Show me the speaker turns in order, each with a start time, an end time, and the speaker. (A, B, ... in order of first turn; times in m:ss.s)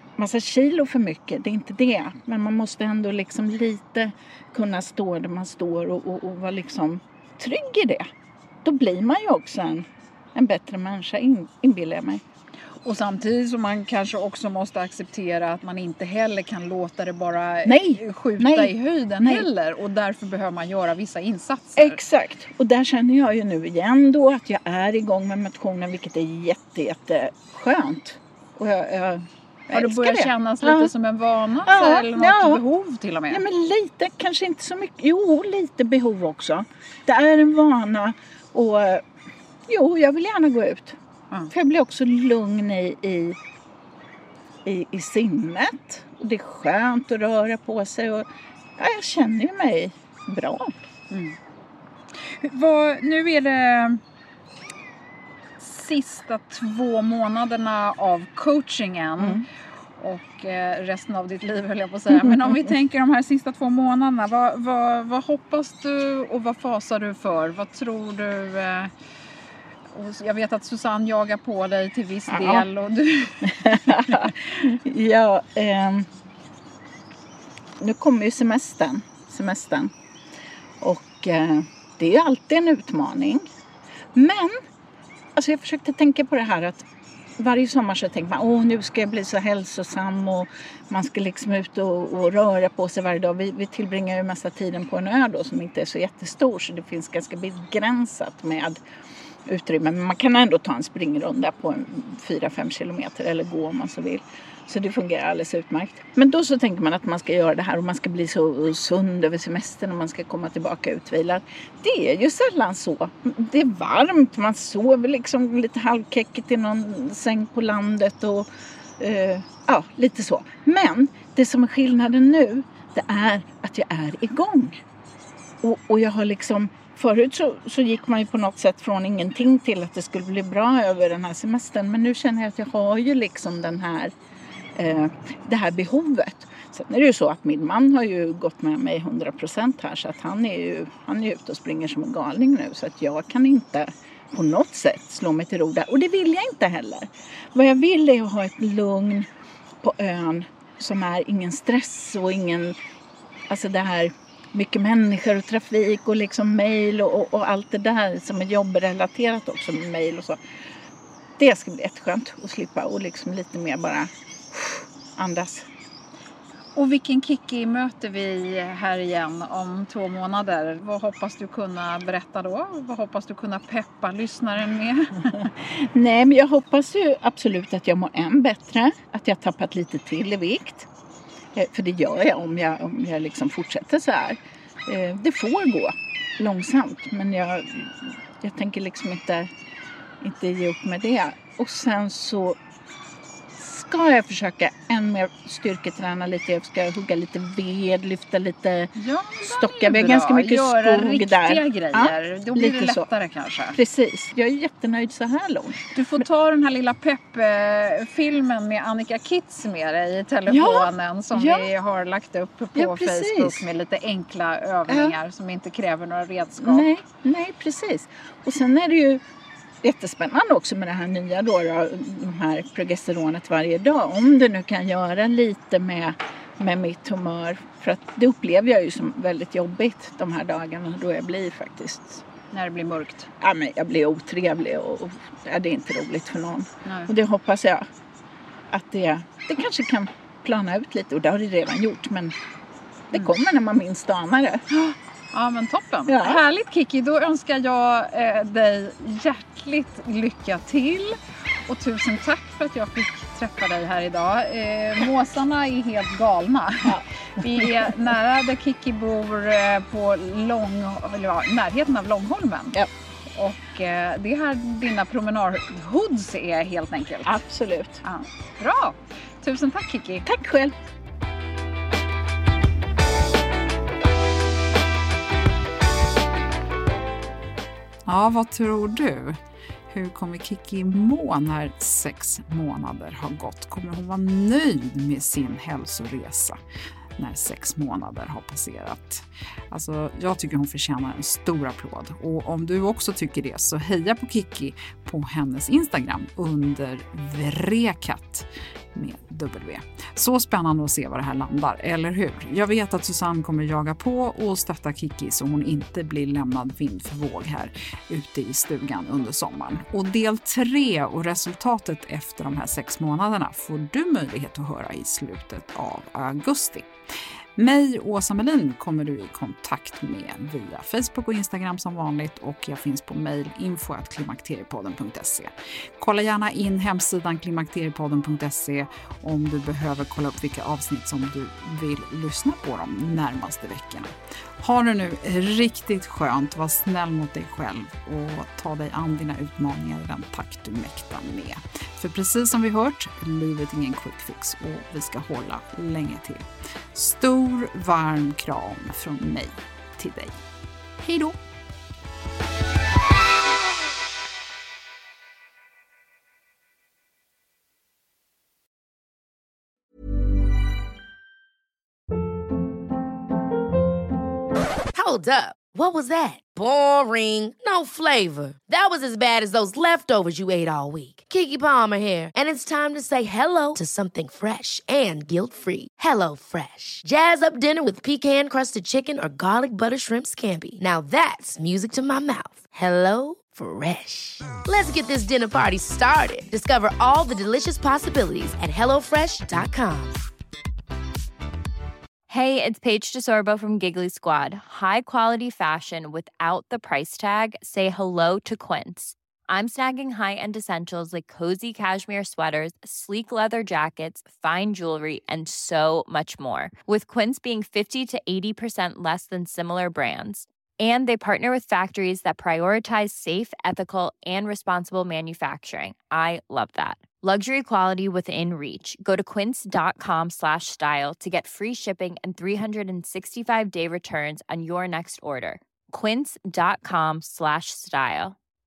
0:00.2-0:08.1 A
0:08.6-0:12.2 A
0:12.8-0:22.0 B
0:17.6-0:19.5 A
0:21.8-0:30.9 A
0:29.7-0:33.4 B
0:31.6-0:32.6 A
0:33.3-0:39.0 A
0:39.7-0:41.0 A
0:41.5-0:43.4 A
0:44.6-0:50.7 A
0:51.1-0:51.4 B
0:52.2-0:54.0 B
0:55.6-1:08.9 B
0:59.2-0:59.4 A
1:09.9-1:14.3 B
1:12.3-1:12.6 A
1:13.4-1:16.1 A
1:17.8-1:19.9 A
1:20.8-1:23.4 A
1:24.1-1:24.6 A
1:25.4-1:26.8 A
1:27.4-1:38.8 A
1:39.5-2:04.8 A
2:05.6-2:14.1 A
2:14.8-2:29.3 A
2:29.8-2:32.8 A
2:33.5-2:40.4 A
2:41.4-2:45.7 A
2:46.8-2:55.5 B
2:55.7-3:00.9 A
3:01.5-3:09.5 A
3:10.2-3:12.6 A
3:13.6-3:23.1 A
3:19.0-3:23.8 B
3:23.7-3:26.2 A
3:25.9-3:36.8 B
3:30.5-3:31.7 A
3:32.7-3:33.6 A
3:34.9-3:35.2 A
3:36.6-3:39.2 A
3:39.8-3:52.2 A
3:52.5-3:53.3 B
3:53.4-3:57.8 A
3:56.8-3:57.1 B
3:58.7-4:02.4 A
4:03.1-4:04.6 A
4:04.7-4:22.8 B
4:06.1-4:06.4 A
4:16.8-4:17.9 A
4:23.3-4:27.4 B
4:27.2-4:28.0 A
4:28.0-4:30.2 B
4:30.2-4:30.8 A
4:38.0-4:39.4 C
4:39.9-4:46.6 C
4:47.2-5:16.9 C
5:17.6-5:50.4 C
5:51.0-5:51.4 C
6:04.9-6:30.2 D
6:32.3-7:08.4 E